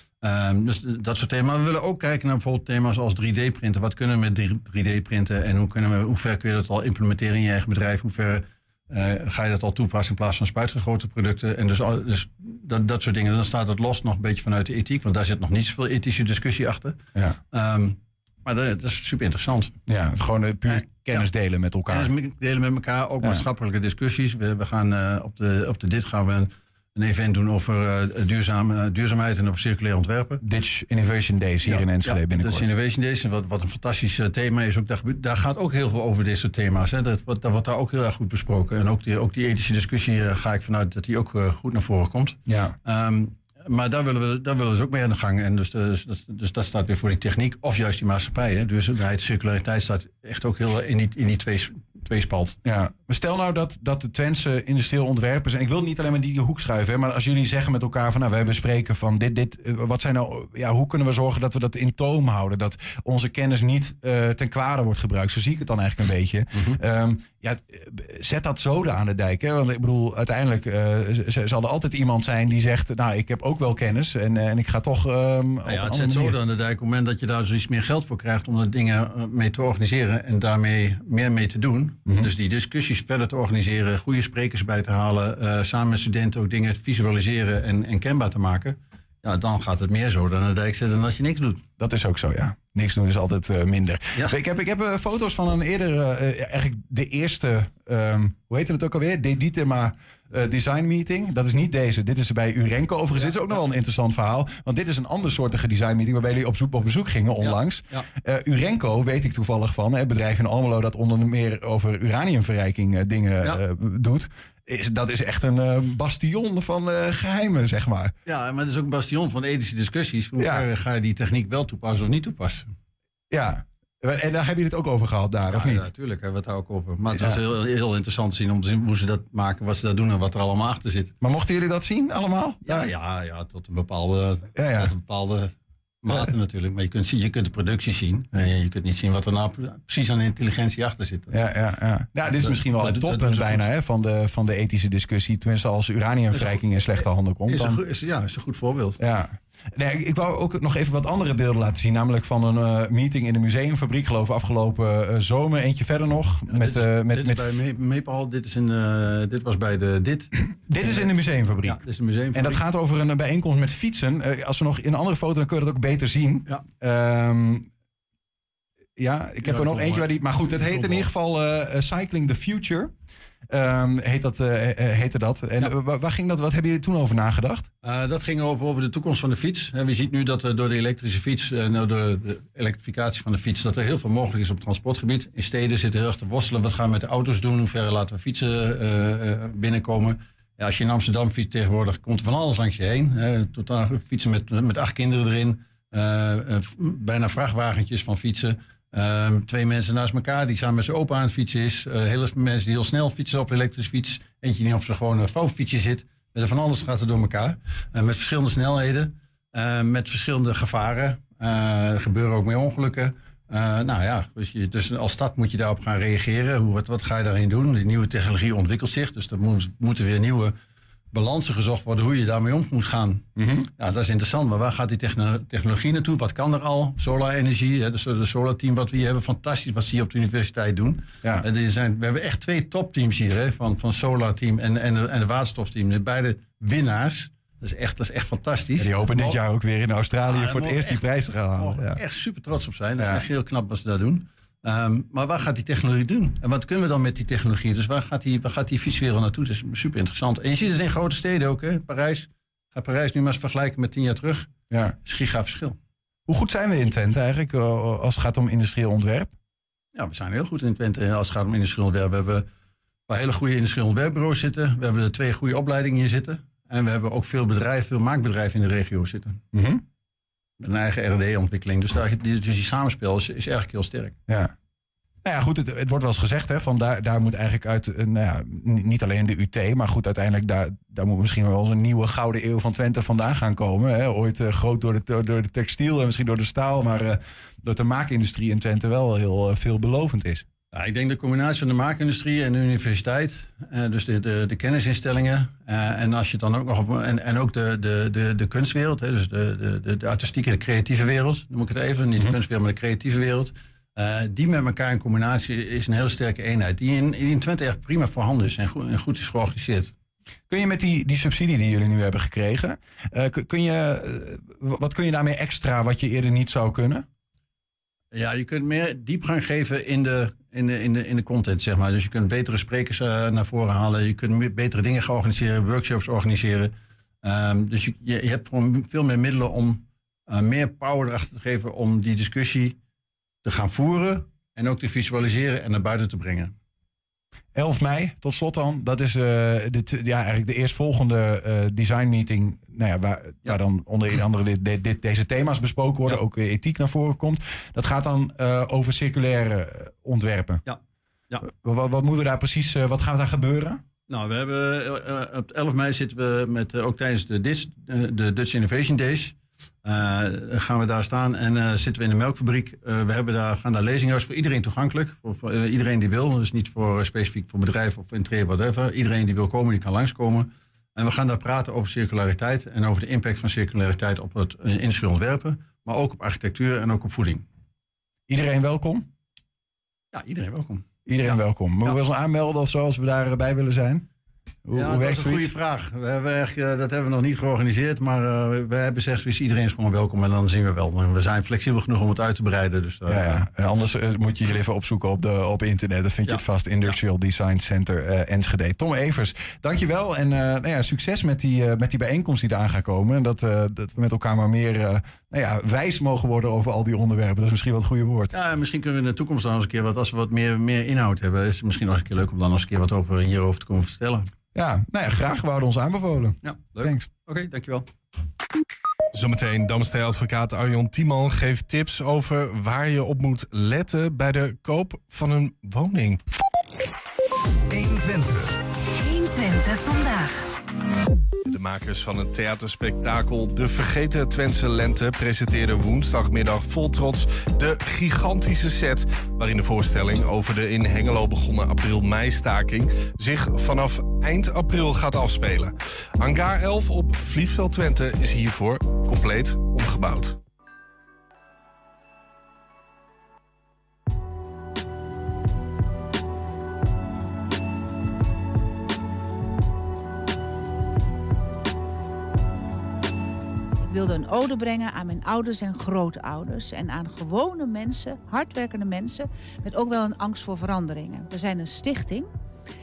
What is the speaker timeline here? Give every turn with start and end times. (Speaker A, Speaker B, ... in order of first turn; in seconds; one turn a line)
Speaker A: 0.2-17.0
Speaker A: 17.5-19.7
Speaker B: 19.9-22.1
Speaker A: 20.8-21.2
Speaker A: 21.9-30.4
Speaker B: 30.4-32.7
Speaker A: 31.6-52.6
Speaker B: 42.5-42.7
Speaker B: 52.6-76.3
Speaker A: 75.7-91.6
Speaker B: 91.8-118.1
Speaker A: 107.4-108.0
Speaker A: 118.2-122.7
Speaker B: 120.4-120.6
Speaker B: 123.3-125.8
Speaker A: 125.5-131.1
Speaker B: 131.2-132.9
Speaker A: 132.7-141.3
Speaker B: 134.6-134.9
Speaker B: 141.3-147.8
Speaker A: 142.4-143.6
Speaker A: 147.5-149.0
Speaker B: 149.0-157.4
Speaker A: 156.5-161.1
Speaker B: 160.7-161.8
Speaker A: 161.7-162.6
Speaker B: 162.3-167.7
Speaker B: 169.0-172.9
Speaker A: 169.4-170.1
Speaker A: 170.7-171.1
Speaker B: 173.5-177.7
Speaker A: 177.8-220.5
Speaker A: 221.1-223.2
Speaker B: 223.4-223.7
Speaker A: 223.8-239.3
Speaker B: 238.8-242.0
Speaker A: 240.3-254.5
Speaker B: 254.7-254.9
Speaker A: 255.0-255.8
Speaker B: 256.3-259.3
Speaker A: 259.9-262.4
Speaker A: 263.1-269.4
Speaker B: 269.5-269.8
Speaker A: 270.6-274.1
Speaker B: 274.3-274.5
Speaker B: 275.2-290.4
Speaker A: 290.7-309.9
Speaker B: 310.5-317.1
Speaker A: 318.1-326.7
Speaker A: 327.2-332.8
Speaker A: 333.4-336.5
Speaker B: 337.5-350.6
Speaker B: 351.4-353.8
Speaker A: 354.1-377.4
Speaker B: 378.3-379.1
Speaker A: 380.1-381.9
Speaker B: 381.1-384.1
Speaker B: 384.6-385.5
Speaker A: 384.7-393.4
Speaker B: 393.1-408.3
Speaker A: 408.3-414.3
Speaker B: 414.5-417.1
Speaker A: 416.4-417.9
Speaker C: 419.1-426.2
Speaker D: 427.7-430.5
Speaker C: 431.4-450.4
Speaker E: 463.8-472.3